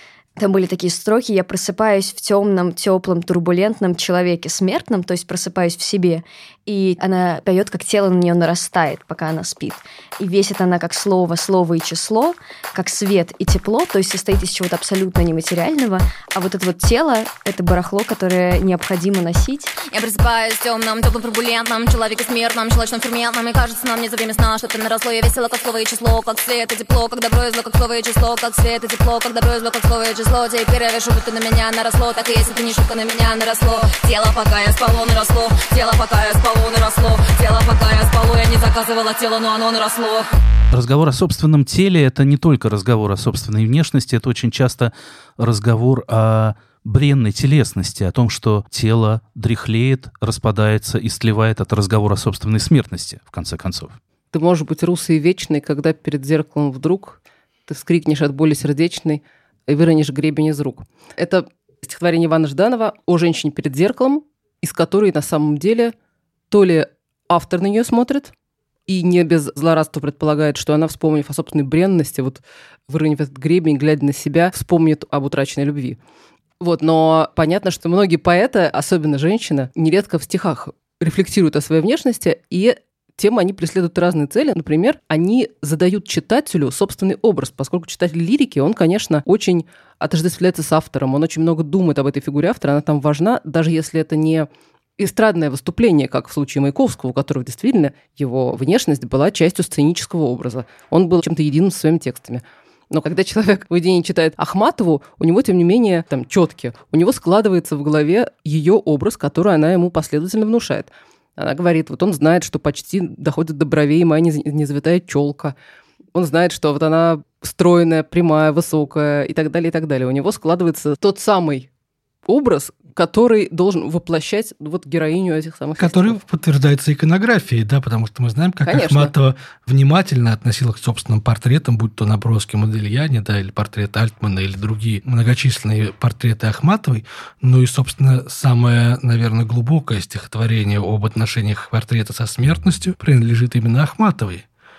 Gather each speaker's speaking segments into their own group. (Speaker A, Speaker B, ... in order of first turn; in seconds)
Speaker A: 0.4-19.7
Speaker B: 19.9-40.3
Speaker C: 40.7-54.0
Speaker D: 54.3-65.9, 66.5-68.3, 68.9-76.0, 76.6-115.5, 116.1-121.7, 122.2-126.2, 128.6-129.1
Speaker E: 125.8-144.4